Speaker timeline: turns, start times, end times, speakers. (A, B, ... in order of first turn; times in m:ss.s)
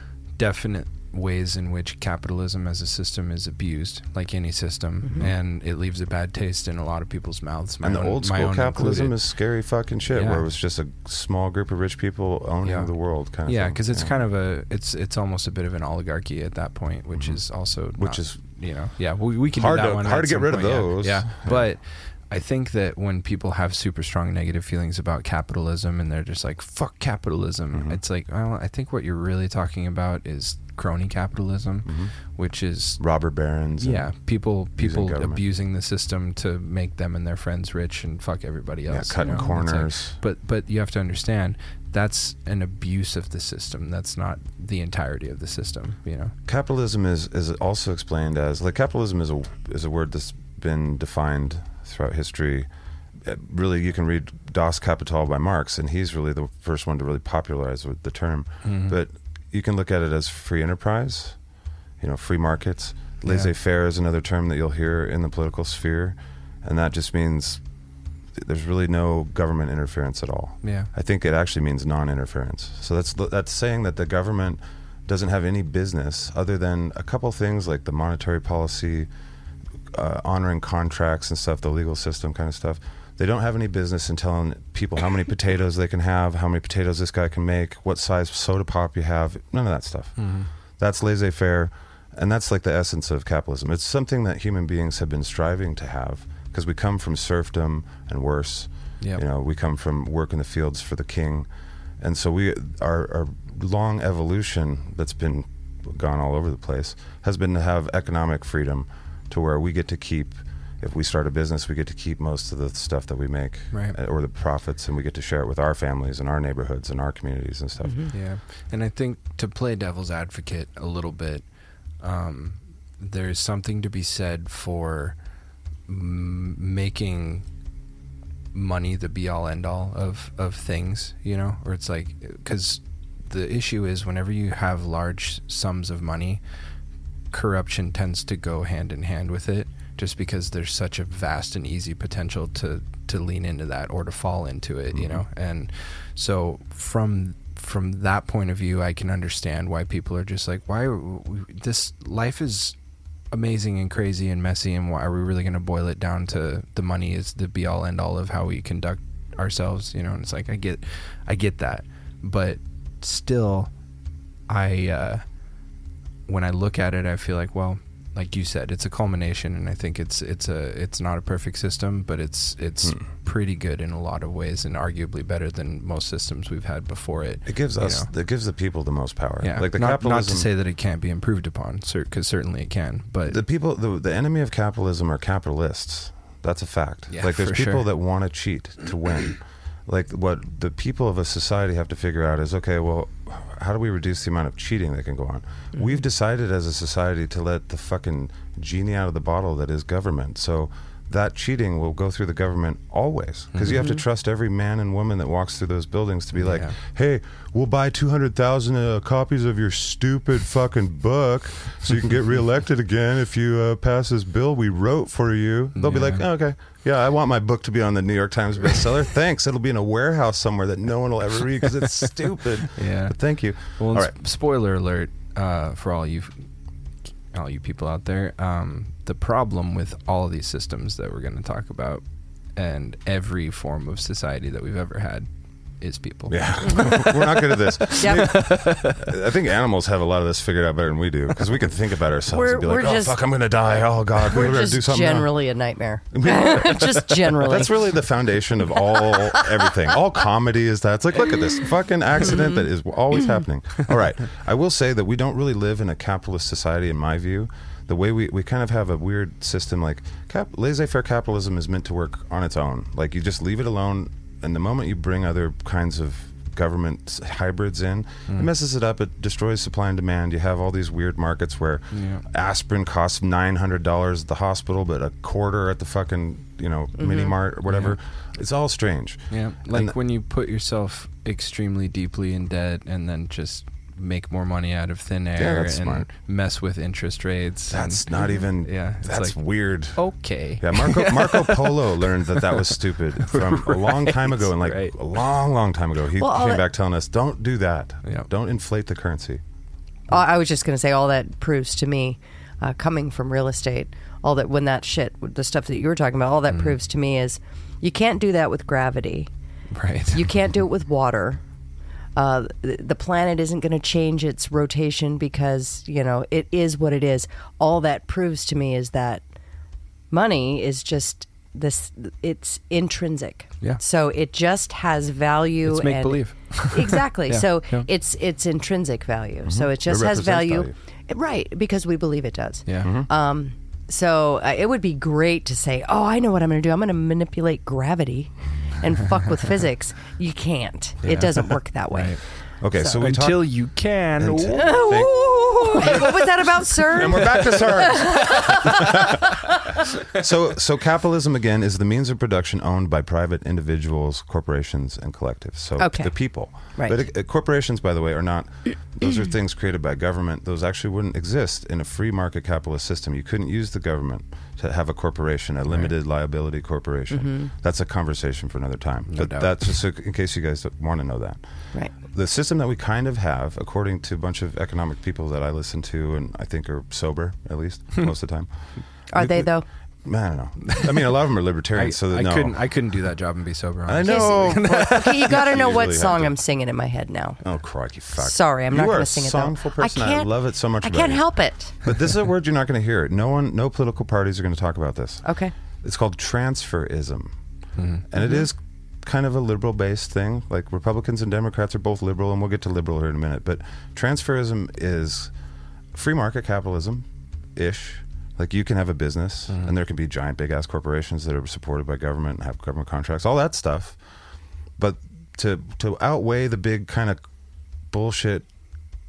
0:00.4-0:09.2 A
0:07.8-0:14.1 B
0:10.1-0:10.4 A
0:12.6-0:12.9 A
0:13.4-0:33.0 A
0:17.1-0:17.4 B
0:18.0-0:18.4 B
0:19.5-0:21.6 B
0:27.7-0:28.0 B
0:31.8-0:32.1 B
0:33.0-0:34.1 B
0:33.8-0:46.3 A
0:34.8-0:35.4 B
0:38.9-0:40.1 B
0:46.5-0:52.7 B
0:53.2-1:01.4 B
0:58.6-0:59.0 A
1:02.0-1:07.6 B
1:03.2-1:03.5 A
1:08.4-1:19.1 B
1:10.6-1:10.9 A
1:19.9-1:30.2 B
1:30.2-1:30.5 A
1:30.8-1:41.5 B
1:42.0-1:58.0 B
1:57.8-1:58.1 C
1:58.1-2:01.4 A
2:02.0-2:05.2 A
2:05.9-2:07.4 A
2:08.5-2:16.4 A
2:17.3-2:32.7 A
2:24.9-2:25.2 B
2:33.3-2:43.7 A
2:44.5-2:45.2 A
2:46.3-2:58.1 A
2:57.4-3:00.5 B
2:59.4-3:03.4 A
3:03.3-3:44.1 B
3:07.1-3:07.9 A
3:23.5-3:23.9 A
3:23.7-3:24.0 C
3:26.4-3:26.7 A
3:35.8-3:36.2 A
3:42.7-3:46.4 A
3:47.3-3:52.0 A
3:52.6-3:55.3 A
3:55.8-3:59.2 A
3:56.3-4:05.3 B
3:58.0-3:58.3 C
4:02.3-4:03.2 C
4:04.2-4:07.8 C
4:06.1-4:40.0 B
4:08.9-4:09.5 C
4:12.3-4:12.6 C
4:31.9-4:32.2 A
4:37.0-4:37.3 C
4:37.7-4:38.0 A
4:39.3-4:48.1 A
4:45.4-4:46.1 B
4:47.7-4:50.0 B
4:48.6-4:55.1 A
4:50.6-4:59.4 B
4:56.2-4:56.6 C
5:00.1-5:09.3 C
5:06.5-5:06.7 A
5:09.7-5:10.3 A
5:10.1-5:11.4 C
5:12.2-5:19.2 C
5:20.1-5:42.2 C
5:25.6-5:27.9 A
5:29.4-5:30.7 B
5:32.6-5:32.9 A
5:32.8-5:33.1 B
5:41.0-5:42.2 A
5:42.6-5:43.5 B
5:42.8-5:44.8 A
5:44.2-6:11.4 B
5:44.5-5:49.6 C
5:55.8-5:56.1 C
6:07.1-6:07.5 C
6:09.1-6:09.6 A
6:12.1-6:18.5 B
6:19.1-6:19.6 C
6:19.1-6:19.5 B
6:20.0-6:22.6 B
6:20.7-6:21.1 A
6:21.7-6:25.4 A
6:23.8-6:26.3 B
6:24.0-6:27.4 C
6:27.4-6:31.3 B
6:28.2-6:30.3 C
6:30.8-6:31.8 C
6:31.8-6:35.2 B
6:35.2-6:35.5 C
6:35.8-6:37.3 B
6:37.8-6:38.0 A
6:38.1-6:45.3 B
6:38.2-6:38.4 C
6:45.9-6:54.0 B
6:54.8-6:57.2 B
6:57.9-6:58.5 B